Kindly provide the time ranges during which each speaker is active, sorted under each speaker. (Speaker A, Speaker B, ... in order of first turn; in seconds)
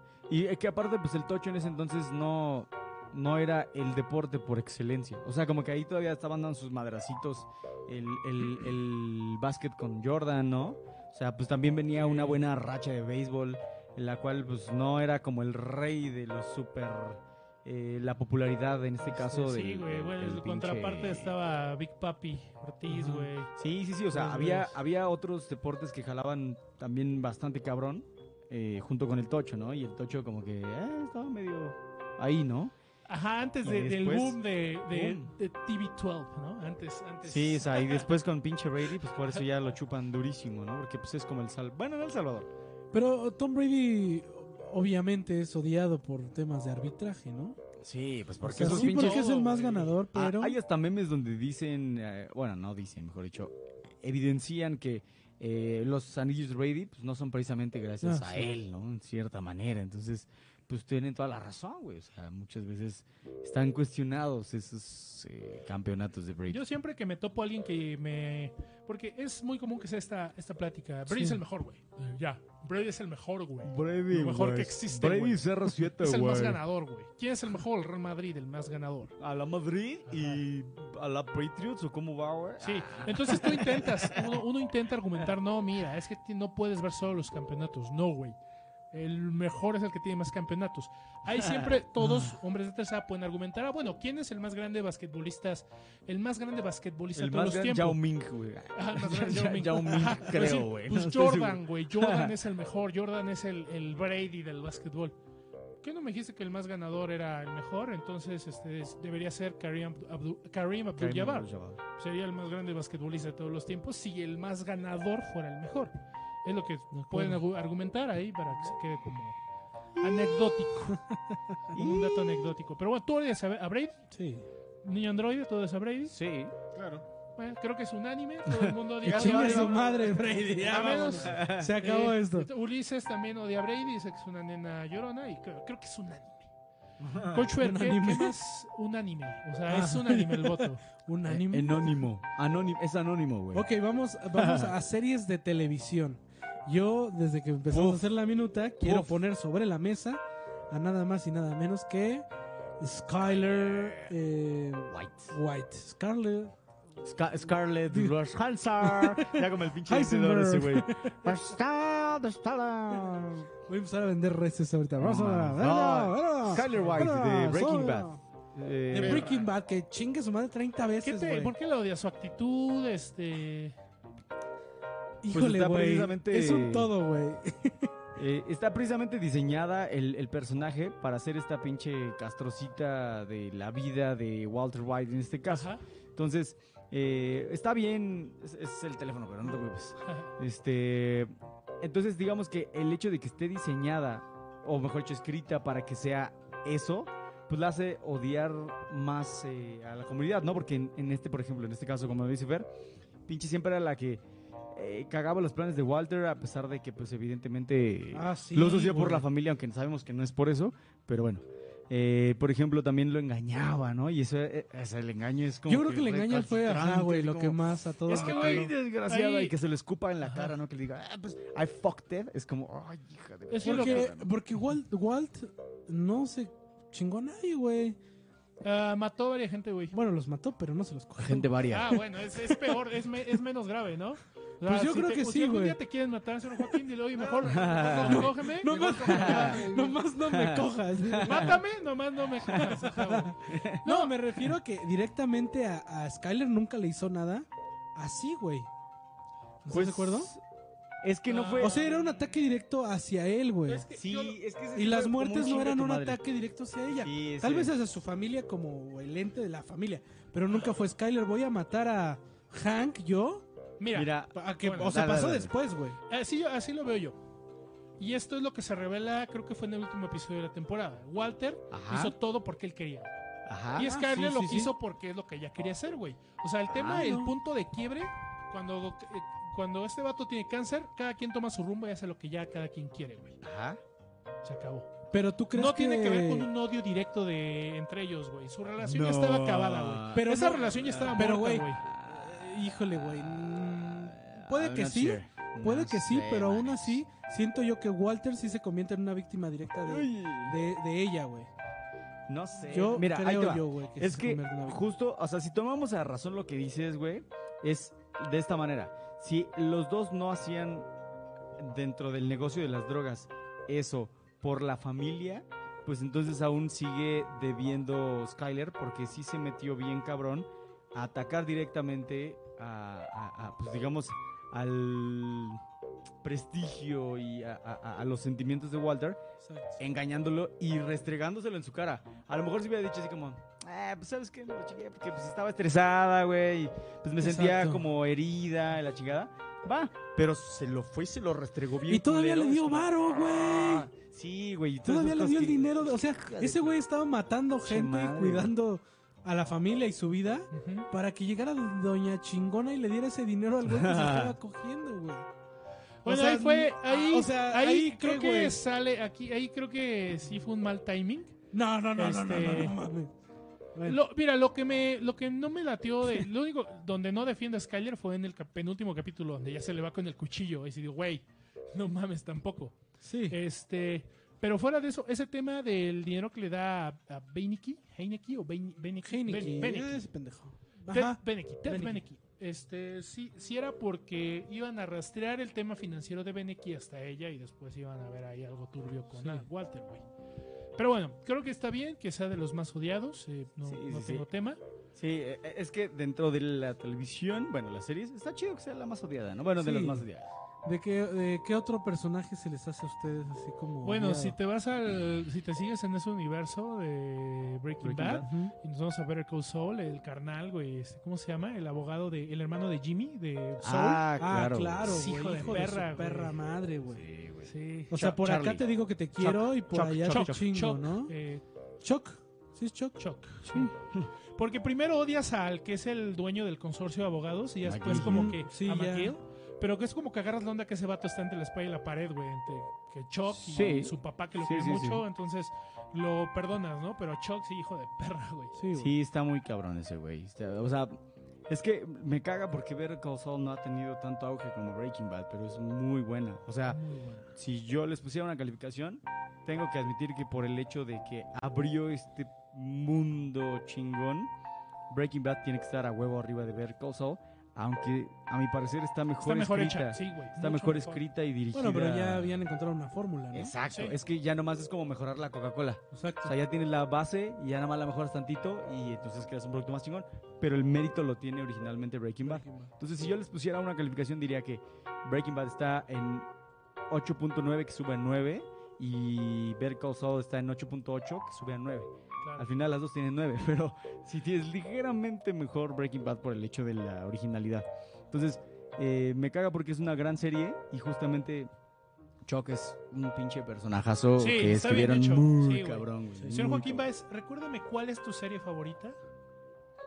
Speaker A: 0.3-21.3, 23.6-32.7, 33.6-35.3, 37.2-42.5, 47.8-49.4, 50.1-66.6, 73.6-76.6, 79.2-84.4, 91.3-91.7, 97.1-102.3, 111.0-111.8, 120.0-120.7, 121.7-122.5, 126.1-126.5, 128.5-129.8, 130.6-131.7, 137.0-137.5, 141.2-143.7, 144.3-144.7, 147.7-148.0, 148.8-149.2, 153.6-154.1, 154.9-155.3, 157.0-163.5, 165.0-169.3, 175.3-176.9, 178.2-202.7, 203.3-204.2, 204.7-224.3, 231.2-232.0, 237.4-238.3, 239.0-239.7, 240.2-241.6, 242.5-242.9, 243.4-243.9, 249.7-250.4, 251.0-251.8, 253.9-256.2, 256.9-257.7, 263.9-265.5, 271.7-272.1, 273.4-273.9, 276.7-277.1, 283.4-283.8, 288.8-297.0, 299.8-300.6, 302.3-310.9, 311.6-325.6, 326.2-329.2, 329.8-346.8, 347.6-348.5, 353.7-354.4, 393.6-394.2, 394.9-400.3, 407.8-408.3, 413.6-415.0, 416.9-420.4, 427.6-428.4, 433.3-435.0, 438.7-441.0, 441.5-446.8, 447.3-454.3, 454.9-462.4, 463.3-476.3, 476.9-491.5, 492.2-496.8
Speaker B: 11.9-12.4, 19.1-23.5, 24.1-24.7, 33.1-38.1, 39.2-39.4, 48.6-50.0, 66.5-79.1, 80.1-80.4, 82.6-88.4, 88.9-98.0, 98.7-105.2, 105.8-115.9, 116.4-119.3, 120.0-121.0, 121.7-124.0, 124.8-126.2, 127.4-136.5, 137.2-140.8, 171.0-173.8, 185.5-185.8, 190.0-190.3, 218.1-219.5, 223.5-224.1, 228.6-229.9, 231.7-239.3, 241.2-244.1, 251.3-252.3, 253.7-254.4, 263.8-264.9, 266.1-267.2, 268.0-273.2, 273.7-283.4, 284.4-284.9, 285.5-291.8, 350.5-350.9, 356.0-361.4, 361.9-362.8, 363.8-372.8, 373.3-380.0, 380.9-390.0, 390.8-394.6, 403.8-414.1, 414.8-416.4, 417.4-417.9, 420.1-421.4, 423.0-423.7, 424.3-438.6, 446.7-447.3, 459.2-461.0, 463.7-463.9, 482.2-482.5, 494.2-499.0
Speaker C: 22.9-23.3, 42.9-47.6, 48.4-50.6, 58.0-58.5, 71.1-71.4, 116.9-117.4, 121.0-121.6, 124.1-124.5, 129.0-132.5, 137.6-138.3, 139.7-142.1, 143.5-152.3, 152.8-156.5, 157.9-158.2, 158.8-161.4, 162.9-168.2, 168.9-171.5, 175.2-177.9, 208.1-209.3, 215.7-218.7, 223.6-228.0, 229.9-231.6, 232.3-232.8, 234.6-235.8, 238.1-241.6, 242.5-248.7, 249.6-250.3, 251.6-253.9, 254.7-263.4, 264.3-266.0, 273.8-274.7, 276.9-277.3, 285.1-286.5, 290.1-301.5, 302.6-304.9, 329.4-329.8, 337.2-337.9, 341.9-343.9, 344.8-355.3, 356.0-358.6, 361.5-363.1, 373.0-373.4, 379.0-382.0, 389.2-389.4, 399.6-400.1, 400.6-404.4, 408.2-408.5, 414.2-417.0, 417.9-421.1, 421.8-423.7, 427.9-429.1, 438.6-438.9, 461.5-463.5, 465.9-466.3, 472.2-473.1
Speaker D: 126.7-127.1, 169.0-169.4, 237.2-240.0